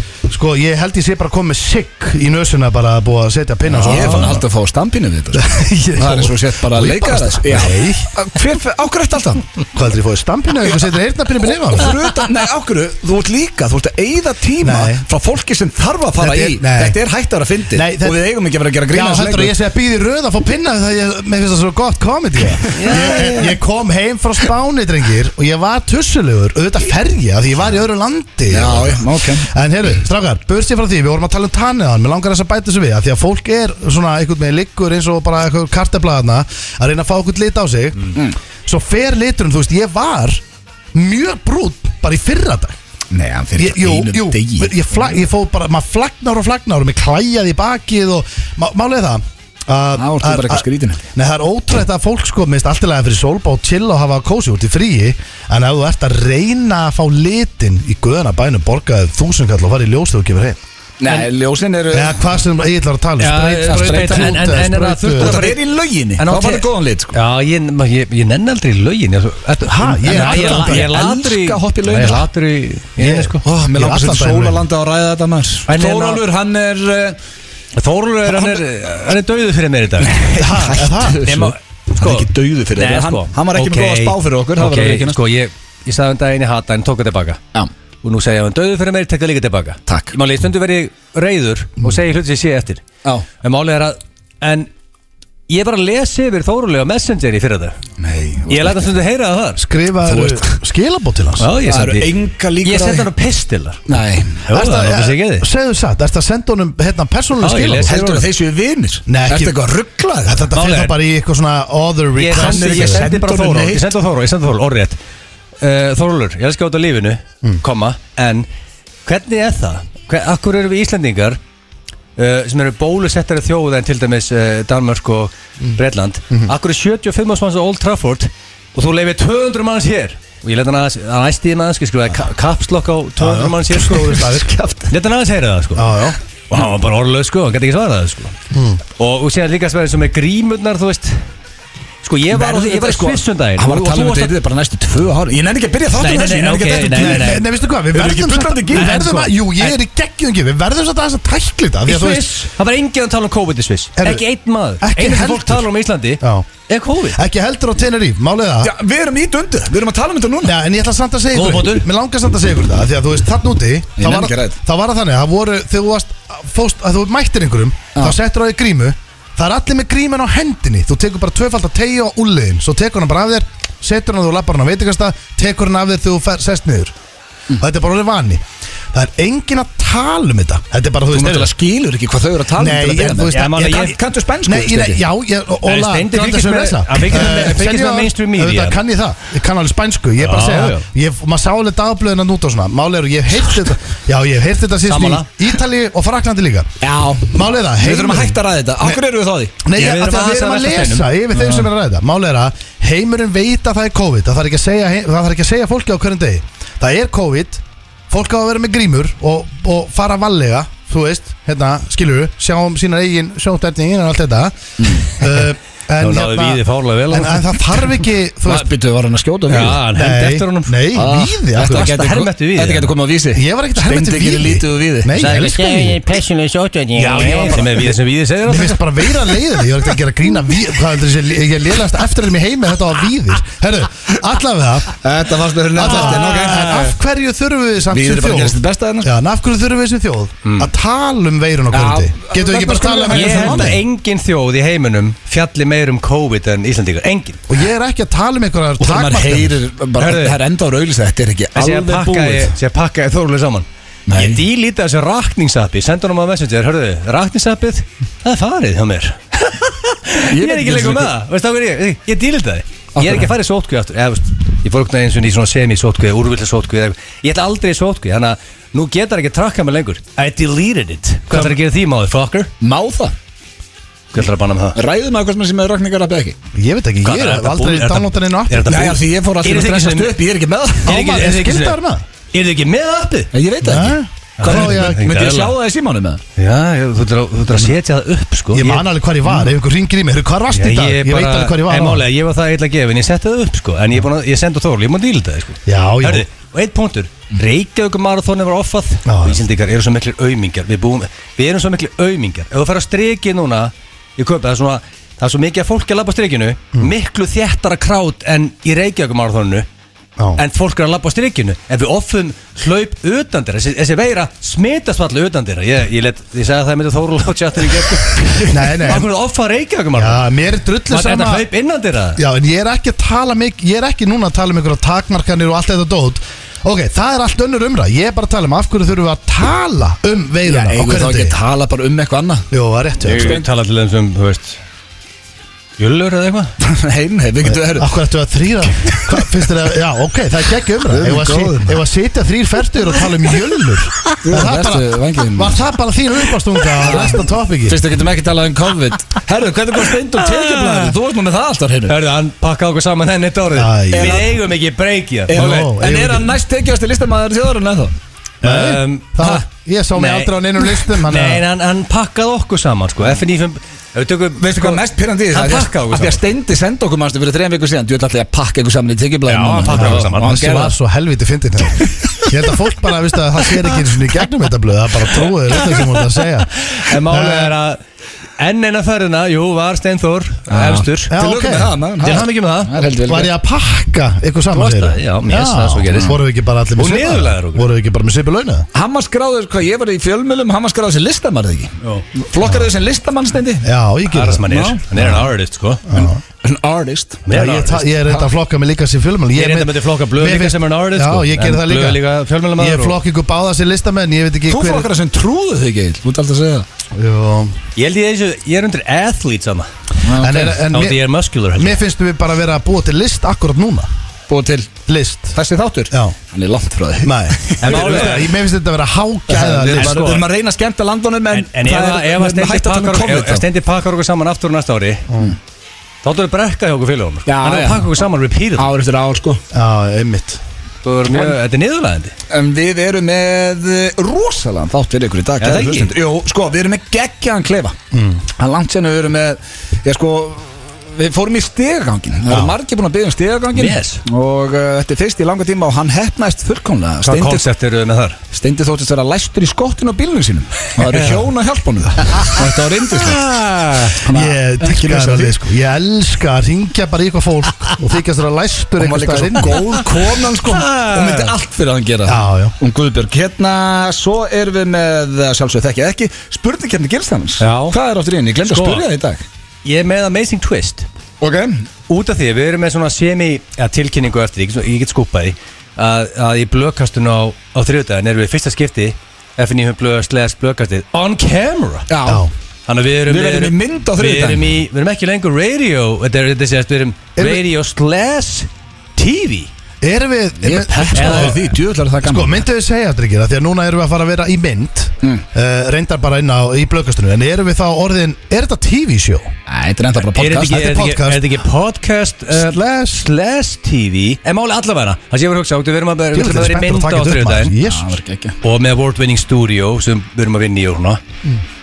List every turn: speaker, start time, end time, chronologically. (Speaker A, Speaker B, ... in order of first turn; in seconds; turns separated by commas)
Speaker A: 0.3-4.4, Speaker B: 3.8-9.5, Speaker C: 3.8-4.3, Speaker A: 5.3-8.1, Speaker A: 9.7-12.0, Speaker B: 10.7-10.9, Speaker B: 11.6-19.6, Speaker A: 14.6-15.0, Speaker A: 16.2-17.0, Speaker A: 17.7-18.2, Speaker A: 18.9-40.4, Speaker C: 22.7-23.6, Speaker B: 22.8-23.3, Speaker B: 28.5-29.5, Speaker A: 40.9-42.8, Speaker B: 43.1-44.9, Speaker A: 43.6-60.6, Speaker B: 50.0-51.0, Speaker B: 61.0-62.3, Speaker A: 61.9-65.5, Speaker C: 63.2-65.6, Speaker B: 63.6-64.5, Speaker B: 65.2-67.2, Speaker C: 66.2-73.4, Speaker A: 69.6-71.0, Speaker B: 70.1-72.3, Speaker A: 73.0-74.7, Speaker B: 73.4-77.2, Speaker C: 75.7-76.2, Speaker C: 77.8-80.3, Speaker B: 78.3-78.6, Speaker B: 80.0-85.2, Speaker A: 80.3-81.2, Speaker C: 81.2-87.4, Speaker C: 88.0-92.8, Speaker B: 89.9-90.2, Speaker C: 93.4-94.7, Speaker C: 95.5-97.8, Speaker B: 98.0-98.9, Speaker C: 98.5-99.6, Speaker A: 99.6-101.5, Speaker B: 100.0-100.6, Speaker C: 101.4-102.1, Speaker B: 101.7-103.1, Speaker C: 102.6-103.9, Speaker B: 103.9-104.4, Speaker C: 104.5-105.5, Speaker A: 104.5-108.0, Speaker C: 107.4-108.2, Speaker B: 107.9-110.5, Speaker A: 109.1-109.6, Speaker A: 110.2-113.0, Speaker C: 110.5-111.0, Speaker C: 112.2-115.0, Speaker B: 112.3-113.9, Speaker C: 115.6-118.5, Speaker C: 119.0-121.4, Speaker C: 122.2-134.3, Speaker A: 133.2-134.5, Speaker B: 134.2-134.9, Speaker C: 134.9-138.3, Speaker A: 135.8-136.2, Speaker A: 138.5-138.8, Speaker C: 139.0-141.2, Speaker C: 142.0-144.3, Speaker B: 142.3-147.4, Speaker C: 146.0-147.4, Speaker A: 147.0-152.3, Speaker B: 147.9-149.3, Speaker C: 148.8-149.7, Speaker C: 151.9-157.2, Speaker A: 154.0-154.2, Speaker A: 154.8-155.7, Speaker A: 156.2-156.5, Speaker A: 157.1-158.7, Speaker B: 158.6-160.6, Speaker A: 160.4-176.9, Speaker C: 161.3-161.8, Speaker B: 164.0-164.6, Speaker A: 177.6-181.5, Speaker B: 181.1-185.0, Speaker A: 182.6-183.8, Speaker C: 183.3-184.0, Speaker A: 184.4-196.7, Speaker C: 185.7-188.8, Speaker C: 190.2-190.9, Speaker C: 194.9-195.3, Speaker B: 196.8-199.6, Speaker A: 197.3-199.0, Speaker A: 199.6-218.7, Speaker C: 199.7-201.6, Speaker B: 214.8-215.1, Speaker C: 216.0-217.7, Speaker B: 218.4-219.8, Speaker C: 219.5-220.8, Speaker A: 219.9-221.9, Speaker B: 220.9-225.4, Speaker C: 221.6-222.9, Speaker A: 223.3-226.0, Speaker C: 225.2-229.2, Speaker A: 227.0-227.9, Speaker B: 227.0-227.7, Speaker A: 228.5-234.9, Speaker B: 235.0-236.8, Speaker A: 235.8-243.8, Speaker C: 235.8-236.9, Speaker B: 237.9-239.1, Speaker C: 240.4-240.7, Speaker B: 241.7-243.8, Speaker C: 243.1-247.4, Speaker A: 247.5-249.6, Speaker B: 248.8-252.6, Speaker C: 250.0-250.4, Speaker C: 251.6-272.5, Speaker B: 254.1-254.4, Speaker B: 260.2-261.1, Speaker B: 263.0-263.3, Speaker B: 271.3-271.6, Speaker B: 272.6-273.1, Speaker C: 274.1-274.8, Speaker B: 274.8-276.4, Speaker A: 276.5-278.8, Speaker C: 277.0-280.2, Speaker B: 278.6-281.0, Speaker C: 280.8-281.8, Speaker A: 280.9-282.0, Speaker C: 282.3-283.3, Speaker B: 283.3-286.2, Speaker A: 283.6-285.0, Speaker C: 284.4-285.6, Speaker C: 286.4-288.9, Speaker A: 288.5-292.0, Speaker C: 290.5-309.7, Speaker A: 295.7-296.3, Speaker A: 299.1-299.4, Speaker C: 310.4-320.2, Speaker A: 318.5-319.1, Speaker A: 320.0-321.5, Speaker C: 320.9-322.2, Speaker A: 322.2-331.4, Speaker B: 330.4-332.5, Speaker A: 332.5-333.4, Speaker C: 333.1-334.6, Speaker B: 333.1-333.5, Speaker C: 335.8-336.5, Speaker B: 336.6-337.9, Speaker A: 337.4-347.8, Speaker B: 340.9-341.8, Speaker B: 344.2-345.6, Speaker B: 346.8-352.0, Speaker C: 349.9-350.9, Speaker C: 351.9-355.5, Speaker A: 353.5-354.3, Speaker B: 353.9-354.3, Speaker B: 355.3-357.9, Speaker A: 355.3-356.4, Speaker A: 358.4-361.4, Speaker C: 358.4-366.2, Speaker B: 364.4-370.8, Speaker C: 369.3-370.6, Speaker A: 369.7-377.5, Speaker B: 371.8-372.2, Speaker C: 376.6-377.8, Speaker C: 378.4-381.1, Speaker B: 380.5-383.3, Speaker A: 381.1-382.2, Speaker C: 382.0-382.7, Speaker A: 383.0-388.7, Speaker C: 384.5-386.2, Speaker C: 386.8-387.7, Speaker B: 388.7-393.7, Speaker A: 392.4-392.7, Speaker A: 393.6-395.3, Speaker C: 394.1-395.9, Speaker B: 394.5-394.8, Speaker A: 395.9-396.2, Speaker B: 396.0-397.3, Speaker C: 397.3-397.9, Speaker A: 397.3-402.0, Speaker C: 399.3-403.0, Speaker A: 402.6-404.9, Speaker B: 404.5-406.7, Speaker A: 406.9-407.6, Speaker C: 407.8-409.7, Speaker B: 410.0-410.6, Speaker A: 410.2-413.9, Speaker C: 410.4-411.8, Speaker B: 414.3-414.8, Speaker A: 414.9-415.4, Speaker B: 415.4-418.3, Speaker A: 415.9-416.2, Speaker A: 417.0-420.2, Speaker C: 417.6-418.3, Speaker B: 419.3-423.4, Speaker C: 419.7-420.2, Speaker C: 421.3-425.1, Speaker A: 425.1-425.4, Speaker C: 426.0-428.7, Speaker B: 427.3-428.0, Speaker B: 428.6-429.4, Speaker A: 429.5-430.4, Speaker C: 430.8-432.1, Speaker B: 432.3-437.8, Speaker C: 435.4-435.9, Speaker A: 437.9-438.2, Speaker B: 438.4-447.5, Speaker C: 443.6-444.0, Speaker C: 447.0-448.2, Speaker B: 448.3-453.2, Speaker C: 450.8-451.3, Speaker C: 452.9-454.0, Speaker B: 454.0-455.4, Speaker A: 454.1-459.7, Speaker B: 458.8-469.2, Speaker C: 460.4-461.3, Speaker A: 462.1-462.6, Speaker C: 467.4-467.8, Speaker C: 468.5-468.9, Speaker C: 469.6-470.9, Speaker B: 471.2-471.6, Speaker C: 471.9-481.9, Speaker B: 481.9-482.3, Speaker A: 482.1-482.3, Speaker C: 482.7-489.5, Speaker B: 483.1-484.6, Speaker A: 487.2-487.4, Speaker A: 489.8-499.3, Speaker B: 490.4-492.4, Speaker C: 490.9-491.4, Speaker B: 499.5-500.6, Speaker C: 500.1-507.5, Speaker A: 500.4-501.4, Speaker A: 502.3-503.1, Speaker A: 506.1-508.0, Speaker B: 507.6-508.4, Speaker C: 508.4-511.0